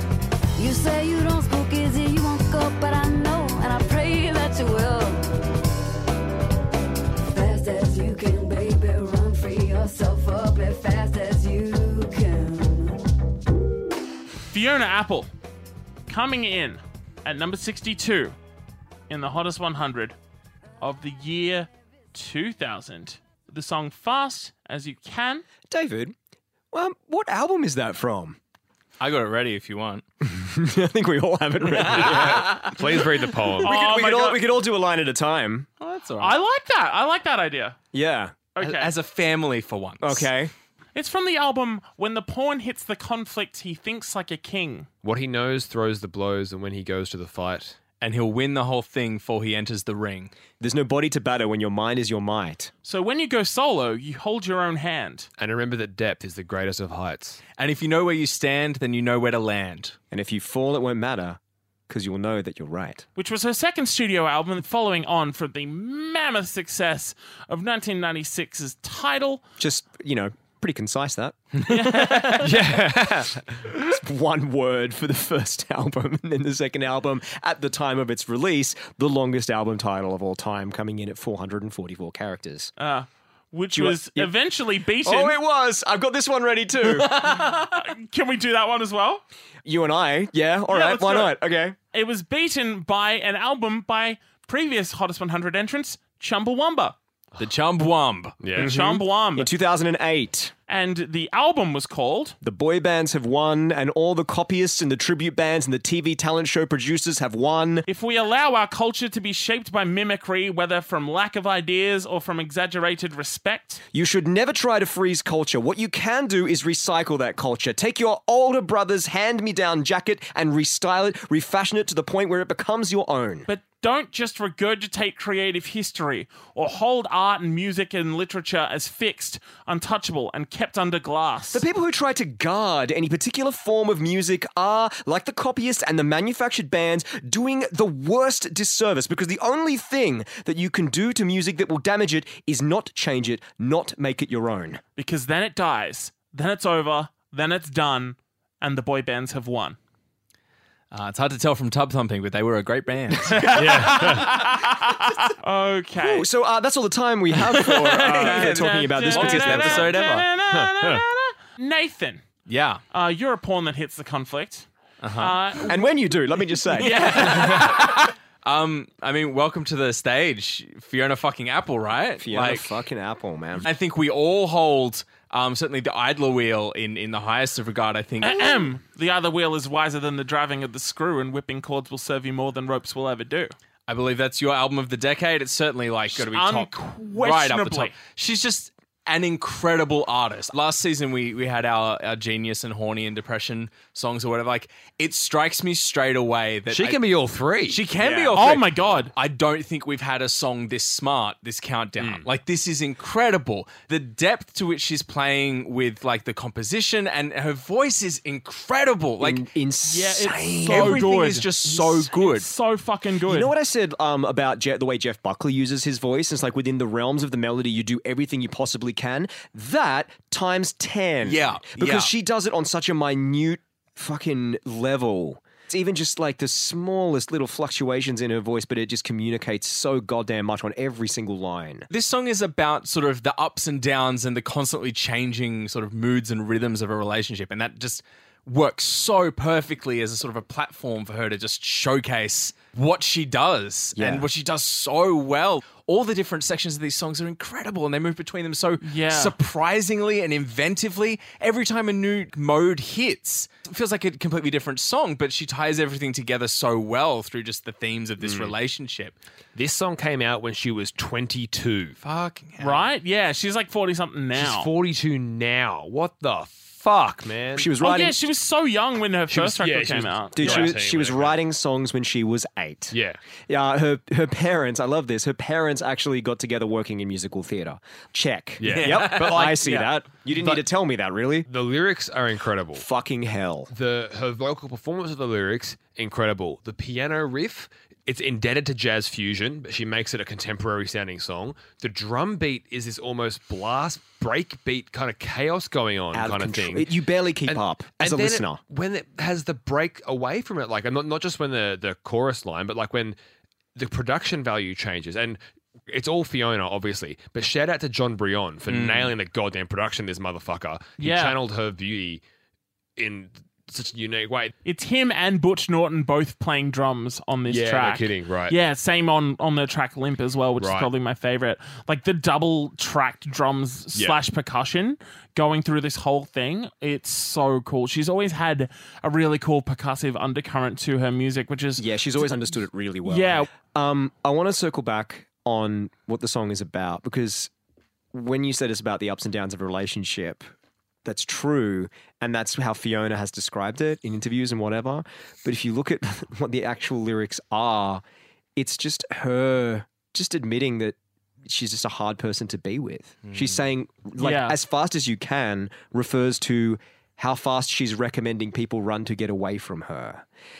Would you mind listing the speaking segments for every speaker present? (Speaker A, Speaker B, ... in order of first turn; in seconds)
Speaker A: 0.6-5.2, 7.3-12.9
Speaker B: 14.5-15.3, 16.1-18.3, 19.1-20.1, 20.8-25.4, 33.6-34.4, 36.2-37.8, 38.5-38.9, 40.9-44.9, 52.8-55.3, 63.1-69.4, 71.7-72.5, 82.8-85.4, 86.9-89.2, 90.7-91.3, 91.9-97.0, 98.5-99.5, 100.7-102.3, 107.9-113.8, 123.5-131.6, 145.0-149.8, 153.3-156.3, 157.5-162.2, 162.9-164.7, 165.2-165.9, 178.2-183.5, 186.1-187.9, 198.3-199.1, 209.8-213.5, 248.8-249.3, 262.6-264.7, 267.8-270.7, 311.0-311.4, 314.6-331.9, 333.0-333.5, 354.2-354.6
Speaker C: 25.7-26.1, 26.7-28.4, 30.2-33.0, 33.5-35.7, 37.9-38.5, 40.0-40.5, 50.6-52.7, 60.1-63.0, 69.6-82.7, 83.7-84.3, 85.0-87.4, 89.6-91.7, 98.6-100.5, 102.4-107.9, 113.9-123.5, 131.5-144.8, 156.0-159.9, 165.6-167.8, 172.2-173.7, 198.0-198.4, 209.2-211.0, 213.2-231.9, 244.0-244.3, 267.6-268.2, 270.3-272.9, 273.5-281.5, 282.7-283.7, 296.1-298.6, 331.8-337.5, 338.1-340.5, 341.0-348.0, 348.6-360.2
Speaker D: 29.0-30.0, 31.7-32.7, 35.8-36.4, 38.6-40.3, 48.0-50.3, 57.6-60.0, 71.7-72.2, 97.4-98.4, 150.9-154.1, 157.5-160.3, 162.5-162.8, 165.0-165.4, 166.8-172.8, 173.6-178.7, 183.9-197.0, 197.7-209.4, 210.6-212.5, 221.2-222.1, 231.9-259.1, 262.0-262.8, 278.6-279.9, 308.7-309.1
Speaker E: 31.9-33.7, 45.0-47.8, 55.4-57.4, 72.4-73.3, 98.4-98.7, 153.5-154.5, 160.5-161.0, 196.7-197.8, 202.0-202.3, 258.2-258.5, 259.5-262.0, 264.3-267.7, 269.3-271.4, 272.9-273.2, 278.6-279.9, 281.5-282.8, 283.7-296.9, 297.4-303.2, 303.7-312.2, 313.0-314.5, 317.5-318.6, 320.6-320.9